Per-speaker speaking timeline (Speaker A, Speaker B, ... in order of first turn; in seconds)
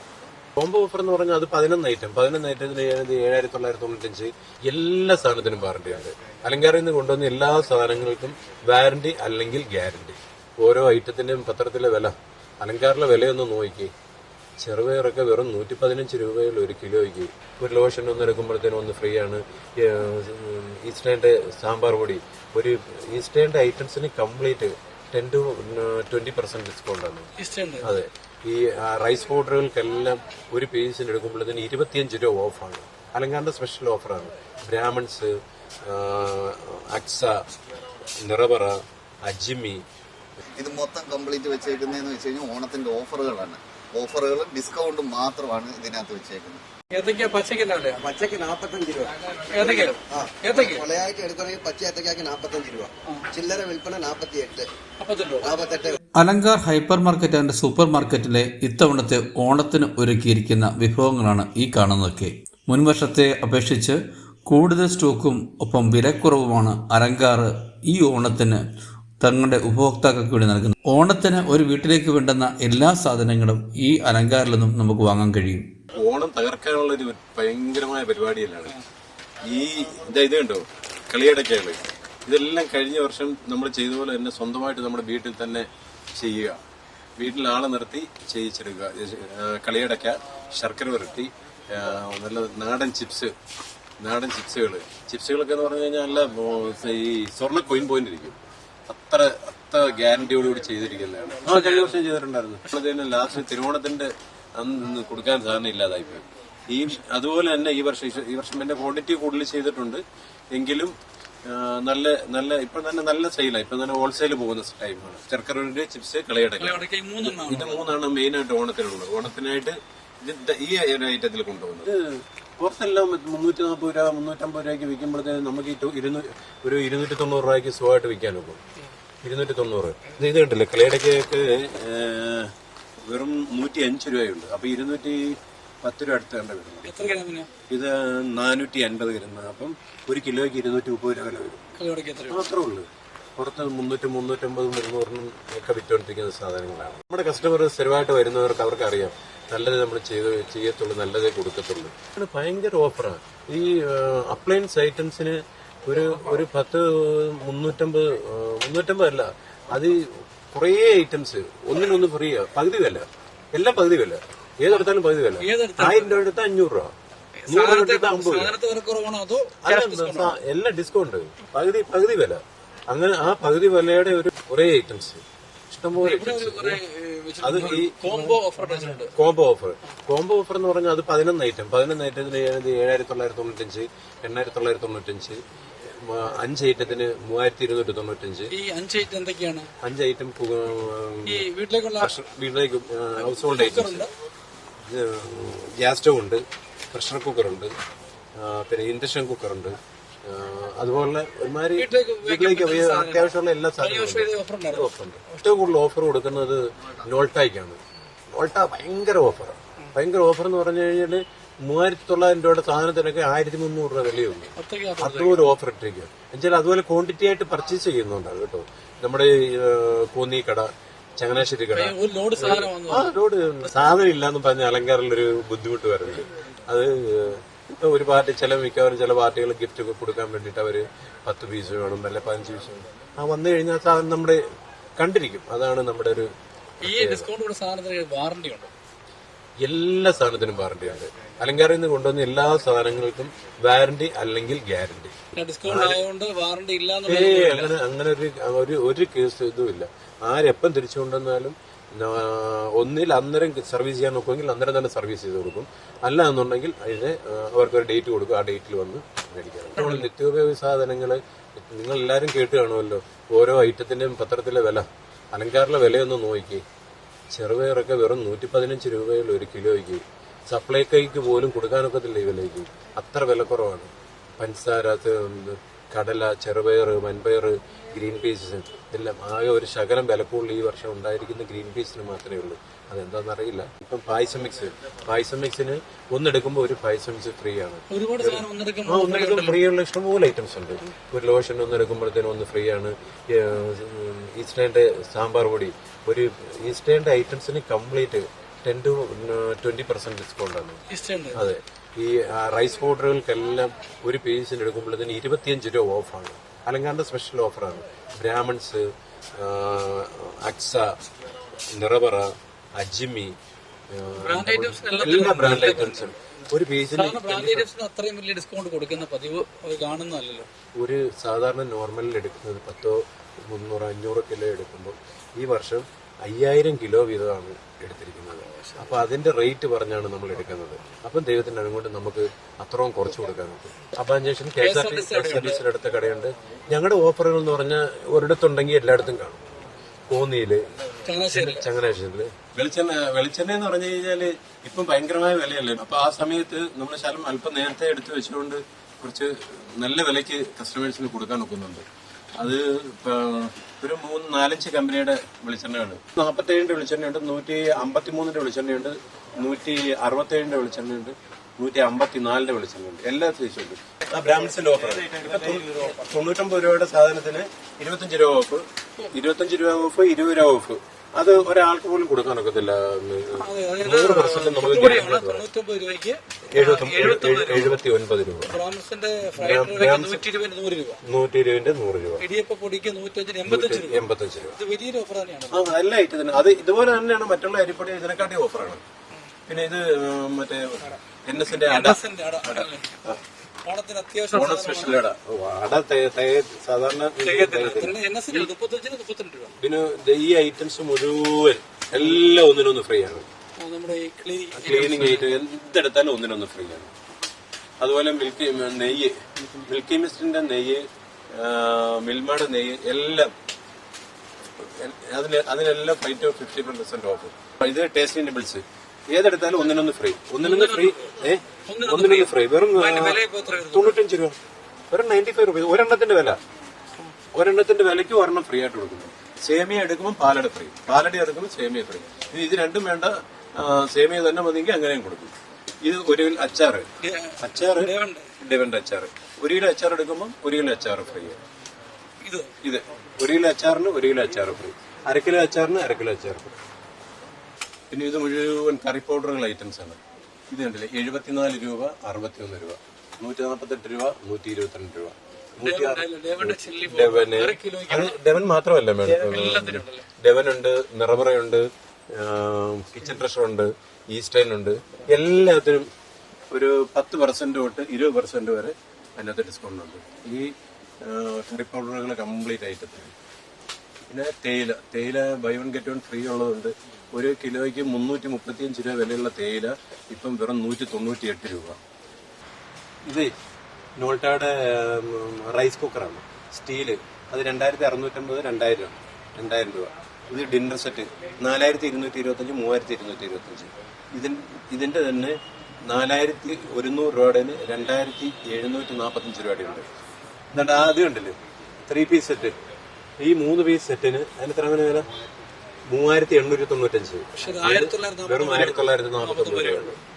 Speaker A: 0.6-13.9, 14.6-37.4, 38.2-39.8, 76.0-78.8, 79.4-86.6, 87.2-93.3, 94.0-128.6, 129.2-141.6, 142.3-166.9, 167.5-168.6, 169.6-176.8, 177.4-188.6, 189.8-191.5, 192.0-194.1, 194.8-197.7, 198.4-207.8, 208.3-234.4, 235.0-236.3, 236.8-237.3, 239.6-246.0, 247.1-266.6, 267.3-311.0, 311.7-313.4, 313.9-317.7, 320.8-339.4, 340.1-375.5, 376.5-378.6, 379.4-380.2, 381.0-382.2, 383.4-384.6, 385.5-388.8, 389.5-393.2, 394.3-398.5, 399.6-403.3, 404.5-406.9, 407.8-413.3, 414.6-424.4, 424.9-426.4, 427.3-441.4, 442.6-446.6, 447.9-450.0, 450.5-465.9, 466.5-473.1, 474.1-481.8, 483.1-483.3, 484.0-499.9, 500.5-502.6, 503.2-505.1, 505.9-510.0
Speaker B: 27.4-27.9, 46.9-48.0, 49.3-50.8, 55.0-55.5, 101.5-102.0, 116.6-117.9, 136.8-137.5, 141.8-142.4, 165.4-166.2, 167.4-170.4, 176.0-179.1, 188.5-189.7, 191.3-192.1, 193.4-194.1, 201.8-204.9, 214.6-215.5, 221.7-223.1, 236.8-238.7, 245.3-247.7, 259.8-260.0, 287.9-289.6, 300.9-301.4, 314.2-316.1, 316.9-320.5, 328.5-328.8, 334.6-335.6, 341.0-341.7, 373.4-377.8, 378.5-381.0, 382.2-384.0, 384.6-385.7, 391.6-393.0, 393.6-395.0, 397.2-399.5, 403.6-405.3, 420.4-421.1, 421.7-424.0, 437.0-438.3, 442.2-442.5, 455.6-458.2, 459.1-460.1, 507.4-509.9
Speaker C: 40.6-46.6
Speaker D: 48.0-54.7, 55.4-56.0
Speaker E: 56.2-68.6, 69.2-75.7